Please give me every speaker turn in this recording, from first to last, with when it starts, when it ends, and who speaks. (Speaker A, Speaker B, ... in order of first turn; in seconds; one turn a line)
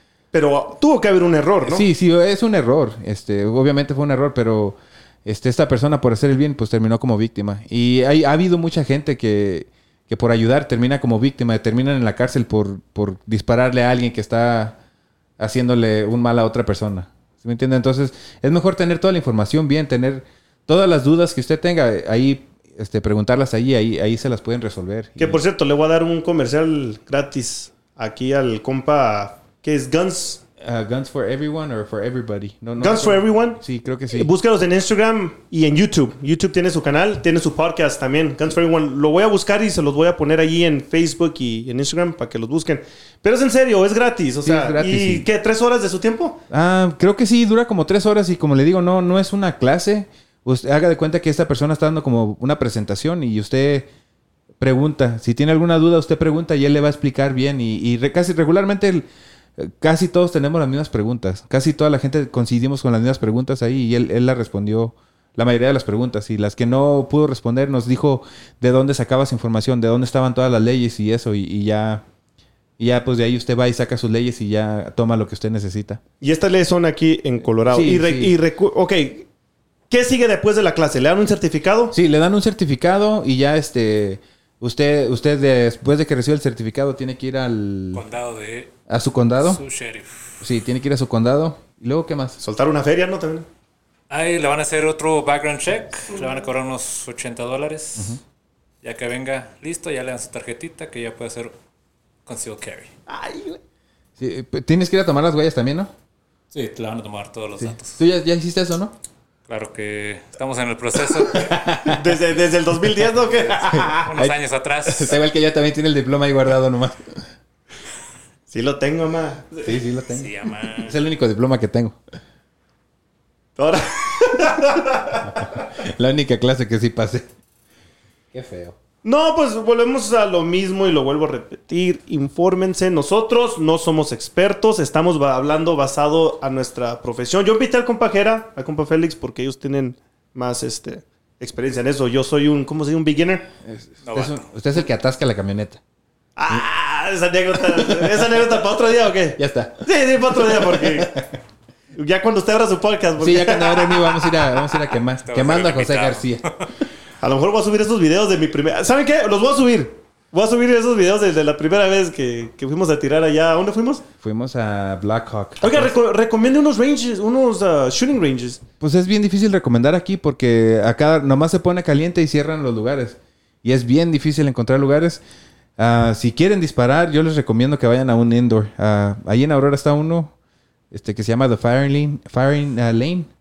Speaker A: 0.3-1.8
Speaker B: 1.6-14.8
Speaker B: 15.4-25.4
Speaker A: 25.2-30.4
Speaker B: 30.6-34.3
Speaker A: 32.8-33.6
Speaker A: 34.1-46.4
Speaker B: 44.4-45.3
Speaker B: 46.5-53.9
Speaker B: 54.6-59.0
Speaker B: 59.6-72.0
Speaker B: 72.8-76.0
Speaker A: 76.2-79.3
Speaker B: 77.7-78.4
Speaker A: 79.9-81.9
Speaker B: 81.9-88.0
Speaker C: 87.9-88.7
Speaker B: 88.9-89.6
Speaker C: 89.4-90.4
Speaker B: 90.4-92.4
Speaker A: 92.4-93.5
Speaker C: 94.1-98.2
Speaker C: 98.8-101.6
Speaker C: 102.2-102.9
Speaker A: 103.1-103.6
Speaker B: 104.2-105.9
Speaker C: 106.5-108.0
Speaker B: 107.6-108.9
Speaker C: 109.5-111.6
Speaker B: 111.4-112.1
Speaker A: 111.8-114.1
Speaker B: 113.7-117.3
Speaker C: 114.0-115.2
Speaker A: 118.5-119.8
Speaker B: 119.6-122.0
Speaker C: 120.1-121.0
Speaker A: 123.5-125.6
Speaker B: 125.2-127.3
Speaker B: 128.3-128.8
Speaker A: 129.0-143.5
Speaker B: 143.6-145.8
Speaker C: 144.0-144.4
Speaker A: 146.3-151.2
Speaker B: 147.7-148.2
Speaker B: 149.4-149.8
Speaker B: 150.4-151.2
Speaker A: 151.9-154.8
Speaker B: 153.2-156.4
Speaker C: 155.2-156.7
Speaker A: 157.2-164.0
Speaker B: 164.2-165.9
Speaker A: 165.6-168.6
Speaker B: 168.8-175.2
Speaker B: 175.8-180.3
Speaker B: 180.9-183.3